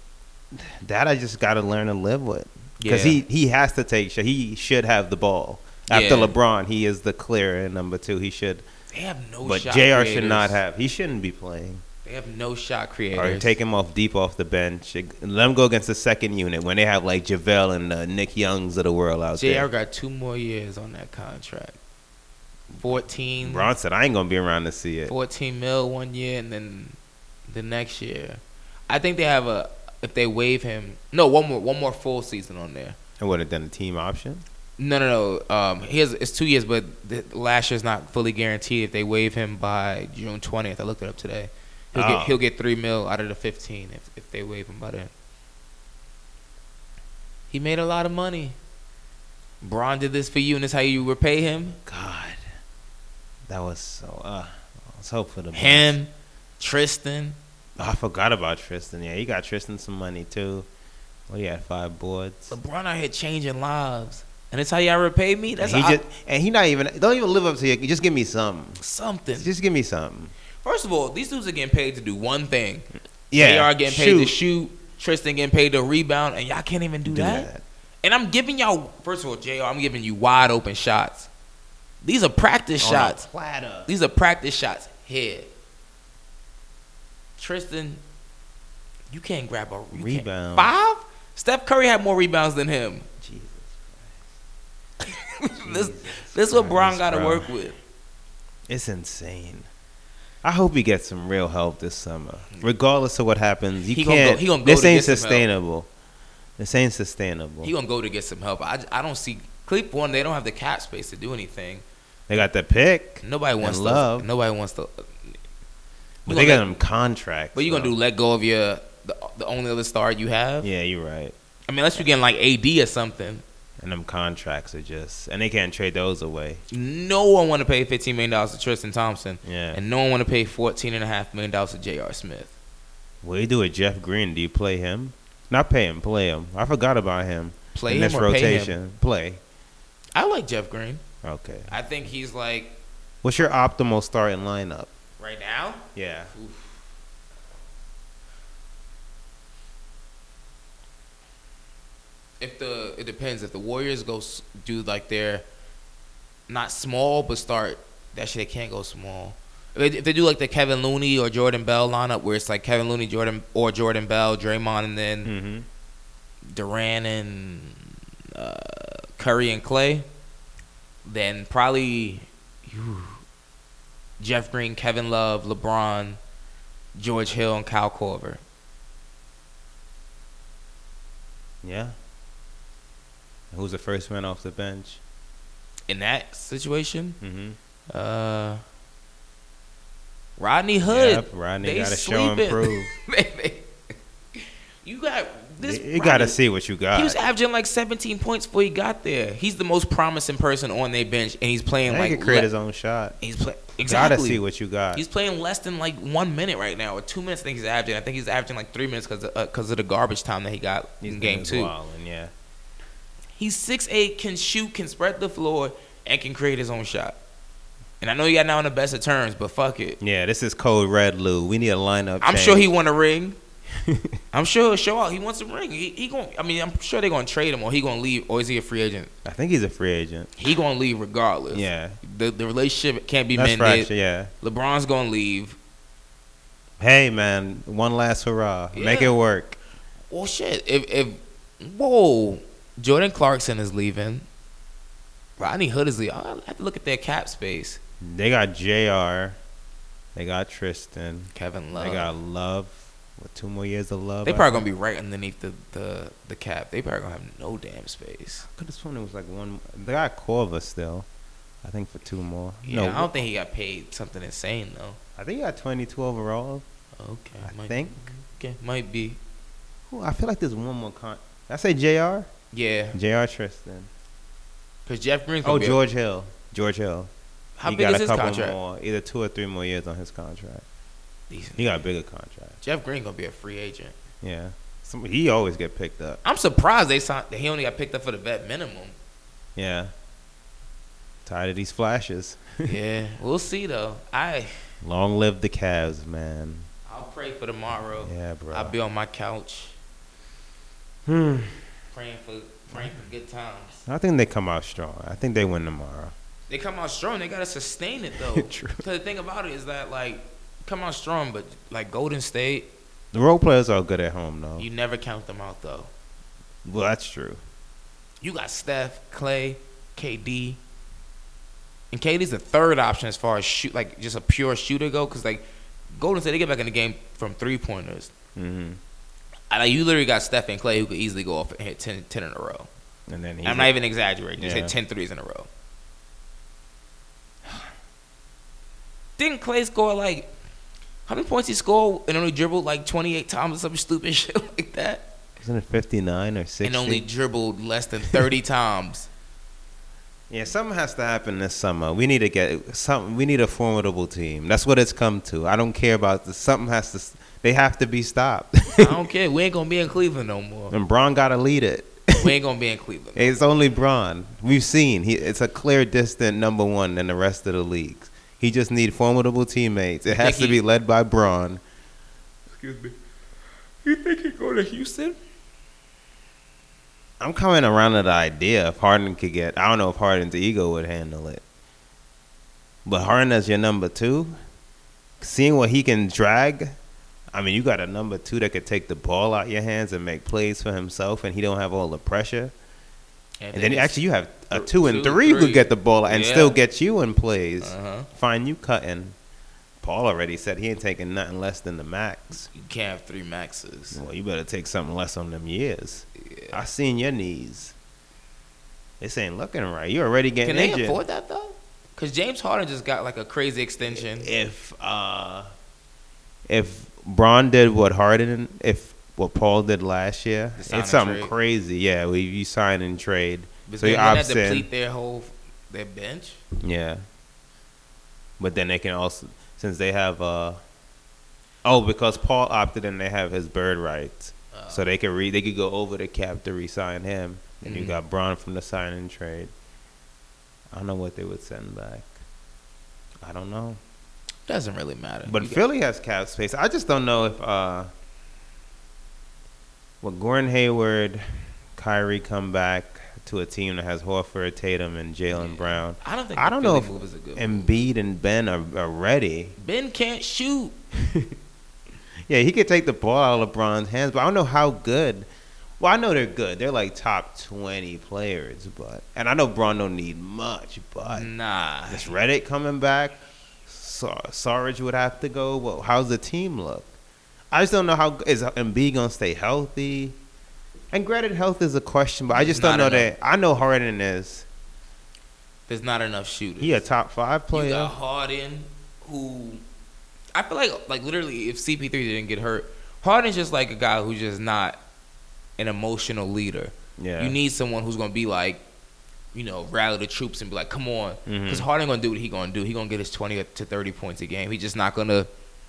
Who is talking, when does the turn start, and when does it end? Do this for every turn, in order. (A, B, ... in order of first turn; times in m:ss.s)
0:00.5-0:08.6 A
0:02.8-0:03.2 B
0:05.9-0:06.3 B
0:08.9-0:10.6 B
0:09.4-0:11.8 A
0:12.0-0:13.5 B
0:13.1-0:19.7 A
0:19.4-0:21.8 B
0:22.7-0:23.7 B
0:23.4-0:25.1 A
0:25.1-0:27.0 B
0:27.5-0:33.0 B
0:33.2-0:34.4 A
0:34.8-0:45.1 B
0:41.9-0:42.4 A
0:47.5-0:48.6 B
0:49.6-0:51.8 B
0:51.8-0:52.4 A
0:53.5-0:55.9 A
0:55.5-0:57.4 B
0:57.8-1:00.7 A
1:01.3-1:02.6 A
1:02.5-1:06.0 B
1:05.6-1:08.8 A
1:08.8-1:09.5 B
1:09.3-1:10.3 A
1:10.6-1:17.5 B
1:13.3-1:14.4 A
1:17.0-1:17.6 A
1:18.0-1:21.3 B
1:22.0-1:23.3 B
1:22.8-1:23.9 A
1:23.9-1:25.5 B
1:27.4-1:28.0 B
1:29.1-1:33.0 B
1:29.9-1:30.7 A
1:33.2-1:34.3 A
1:35.4-1:37.8 B
1:35.6-1:37.5 A
1:38.7-1:39.7 A
1:40.4-1:45.9 A
1:43.9-1:45.4 B
1:46.6-1:47.7 A
1:47.6-1:51.8 B
1:52.3-1:54.3 A
1:53.2-1:55.3 B
1:56.2-1:56.7 B
1:56.2-1:57.9 A
1:57.5-2:00.7 B
2:00.6-2:01.3 A
2:01.7-2:03.4 B
2:03.8-2:06.6 A
2:06.7-2:12.5 B
2:09.4-2:09.8 A
2:13.2-2:19.4 A
2:17.7-2:18.8 B
2:20.1-2:21.0 B
2:21.2-2:21.7 A
2:21.7-2:22.7 B
2:23.2-2:24.9 A
2:25.2-2:26.7 B
2:25.9-2:26.3 A
2:32.4-2:35.4 B
2:36.5-2:45.3 B
2:45.2-2:45.6 A
2:46.5-2:50.0 B
2:51.0-2:53.2 B
2:54.2-2:56.2 B
2:56.9-2:58.4 B
3:01.6-3:02.0 A
3:03.5-3:05.0 A
3:05.9-3:07.2 B
3:07.2-3:07.6 A
3:07.9-3:08.6 B
3:10.4-3:13.7 B
3:10.9-3:12.9 A
3:14.8-3:16.4 B
3:15.6-3:17.2 A
3:16.9-3:22.5 B
3:21.8-3:23.2 A
3:23.2-3:24.4 B
3:23.8-3:25.0 A
3:24.9-3:31.7 B
3:31.0-3:32.3 A
3:33.4-3:37.2 B
3:38.0-3:40.0 B
3:40.0-3:42.7 A
3:42.2-3:43.4 B
3:43.7-3:44.2 A
3:44.3-3:49.1 B
3:49.2-3:50.3 A
3:50.4-3:53.9 B
3:51.5-3:52.0 A
3:53.3-3:54.3 A
3:54.4-3:55.6 B
3:56.8-3:59.6 A
3:58.7-3:59.1 B
4:00.1-4:04.2 B
4:05.4-4:07.8 B
4:08.0-4:09.4 A
4:10.1-4:14.6 A
4:11.3-4:12.1 B
4:14.2-4:18.5 B
4:18.5-4:21.1 A
4:21.6-4:23.2 A
4:22.6-4:25.0 B
4:25.2-4:26.6 A
4:27.0-4:29.2 B
4:27.4-4:28.1 A
4:29.9-4:32.3 A
4:32.5-4:33.0 B
4:32.9-4:33.9 A
4:34.8-4:35.8 B
4:35.4-4:37.1 A
4:37.6-4:38.6 B
4:37.6-4:40.6 A
4:41.3-4:41.8 B
4:41.6-4:42.6 A
4:42.6-4:43.9 B
4:44.2-4:46.2 A
4:46.2-4:48.9 B
4:49.6-4:49.9 A
4:51.2-4:52.7 A
4:52.6-4:54.6 B
4:54.8-4:56.7 A
4:56.8-4:59.7 B
4:58.0-4:58.7 A
5:01.0-5:01.6 A
5:01.9-5:03.8 B
5:02.7-5:03.0 A
5:03.8-5:06.1 A
5:06.5-5:12.7 B
5:08.3-5:08.8 A
5:13.1-5:14.6 A
5:14.6-5:15.9 B
5:16.6-5:17.4 A
5:18.2-5:20.6 B
5:21.9-5:28.1 B
5:28.4-5:28.8 A
5:29.5-5:32.7 B
5:33.1-5:33.7 A
5:33.4-5:35.5 B
5:34.4-5:34.7 A
5:39.2-5:40.3 B
5:41.1-5:45.1 B
5:45.4-5:47.0 A
5:46.6-5:49.1 B
5:50.3-5:59.0 A
5:58.8-6:00.7 B
6:00.7-6:02.3 A
6:02.2-6:03.4 B
6:03.2-6:11.6 A
6:10.1-6:10.6 B
6:12.5-6:12.9 B
6:13.8-6:15.2 B
6:17.2-6:21.4 A
6:22.8-6:24.4 A
6:25.2-6:26.7 A
6:27.3-6:32.5 A
6:33.4-6:36.6 B
6:33.5-6:39.1 A
6:37.6-6:38.1 B
6:39.8-6:42.5 A
6:42.5-6:44.0 B
6:43.9-6:47.7 A
6:46.3-6:46.6 B
6:49.0-6:51.0 A
6:50.4-6:54.3 B
6:53.9-6:55.5 A
6:56.5-7:04.7 A
7:00.6-7:01.3 B
7:03.7-7:06.4 B
7:06.6-7:07.0 A
7:08.4-7:10.6 A
7:11.6-7:19.5 A
7:14.5-7:14.8 B
7:17.6-7:18.0 B
7:20.7-7:22.2 A
7:23.2-7:23.8 A
7:24.5-7:25.6 B
7:25.2-7:27.9 A
7:30.0-7:39.5 A
7:35.3-7:37.7 B
7:39.6-7:40.8 B
7:41.0-7:41.3 A
7:42.3-7:45.3 A
7:45.8-7:51.3 A
7:51.0-7:52.1 B
7:51.9-7:56.9 A
7:57.5-8:00.2 A
8:00.9-8:04.4 A
8:02.3-8:03.1 B
8:05.7-8:06.8 B
8:06.6-8:07.9 A
8:07.5-8:09.6 B
8:10.3-8:14.8 B
8:15.6-8:18.6 B
8:17.0-8:17.4 A
8:19.3-8:25.3 B
8:21.2-8:21.7 A